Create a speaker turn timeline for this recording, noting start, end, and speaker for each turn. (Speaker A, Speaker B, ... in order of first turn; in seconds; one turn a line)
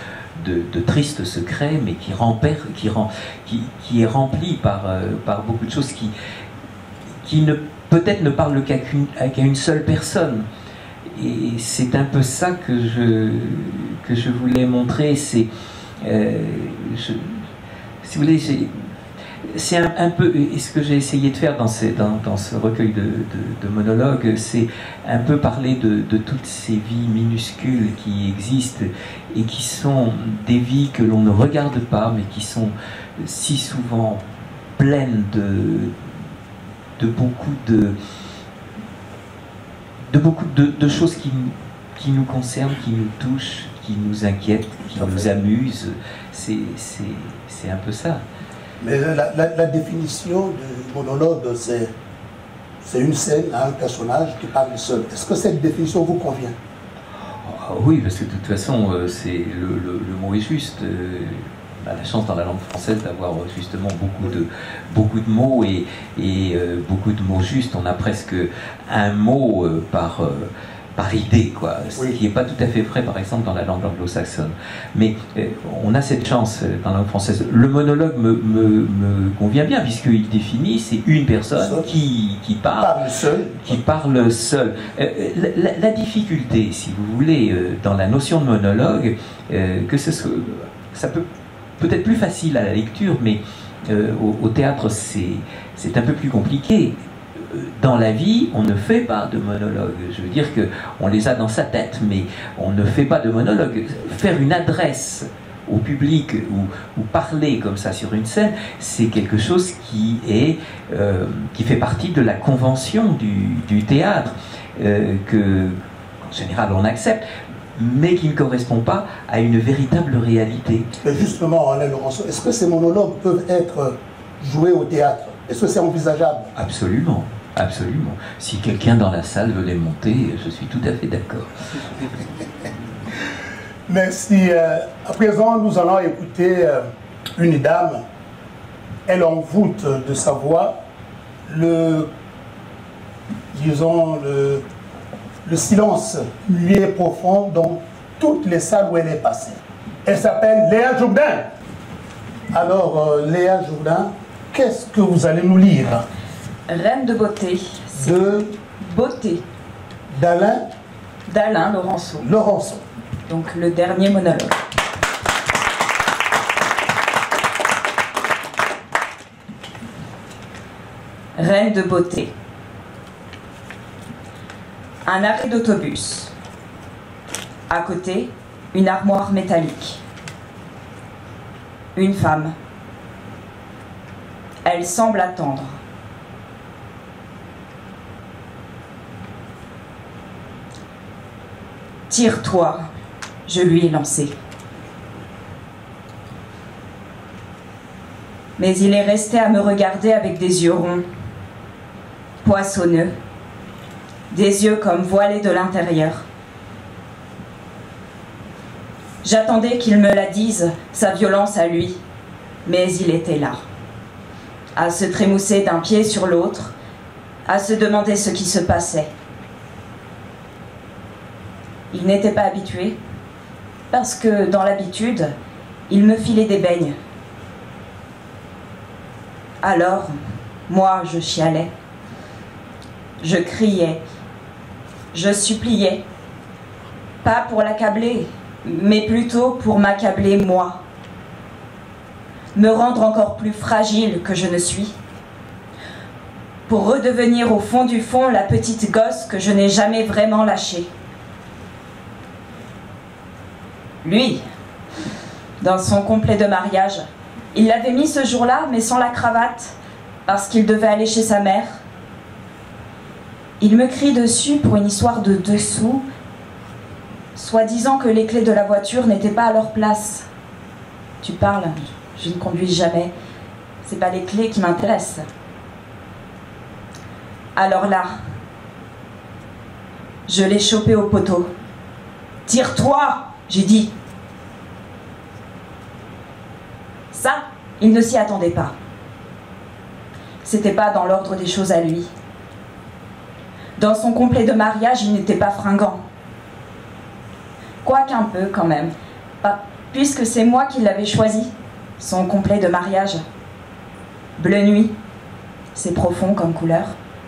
Speaker A: 0.4-6.1
Speaker A: 7.2-10.4
Speaker A: 11.1-15.5
Speaker A: 16.0-17.5
Speaker A: 18.0-18.9
Speaker A: 19.5-34.2
Speaker A: 34.8-36.1
Speaker A: 37.0-38.0
Speaker A: 40.1-48.2
Speaker B: 45.0-45.3
Speaker B: 48.8-51.9
Speaker B: 52.8-56.5
Speaker A: 57.3-83.0
Speaker B: 81.5-81.9
Speaker B: 82.8-83.8
Speaker A: 83.6-91.2
Speaker A: 91.8-120.9
Speaker B: 121.0-126.5
Speaker A: 126.5-132.1
Speaker B: 133.9-136.8
Speaker B: 137.4-138.0
Speaker B: 139.1-140.8
Speaker B: 141.5-142.1
Speaker B: 143.5-144.6
Speaker B: 145.4-151.5
Speaker B: 152.5-156.1
Speaker C: 156.7-158.1
Speaker B: 157.9-158.6
Speaker C: 158.8-159.4
Speaker B: 160.1-160.7
Speaker C: 161.3-162.2
Speaker B: 162.2-162.8
Speaker C: 163.3-164.6
Speaker C: 171.4-172.3
Speaker C: 175.1-176.3
Speaker C: 177.7-180.0
Speaker C: 181.9-182.6
Speaker C: 184.6-185.8
Speaker C: 192.1-192.8
Speaker C: 193.4-194.3
Speaker C: 198.6-201.1
Speaker C: 202.4-203.1
Speaker C: 204.3-206.3
Speaker C: 209.2-212.0
Speaker C: 212.7-213.6
Speaker C: 214.8-216.7
Speaker C: 217.5-219.1
Speaker C: 221.9-223.0
Speaker C: 223.9-225.3
Speaker C: 225.9-226.9
Speaker C: 229.6-230.1
Speaker C: 230.7-231.7
Speaker C: 233.2-234.0
Speaker C: 235.1-236.0
Speaker C: 237.2-240.8
Speaker C: 242.6-244.9
Speaker C: 246.7-250.9
Speaker C: 254.0-254.4
Speaker C: 255.6-261.8
Speaker C: 263.6-266.1
Speaker C: 267.3-270.2
Speaker C: 271.2-273.1
Speaker C: 273.8-275.2
Speaker C: 277.6-278.1
Speaker C: 280.3-281.5
Speaker C: 282.5-283.9
Speaker C: 287.1-288.7
Speaker C: 290.4-292.1
Speaker C: 293.8-296.0
Speaker C: 297.8-303.2
Speaker C: 304.4-304.9
Speaker C: 305.7-306.9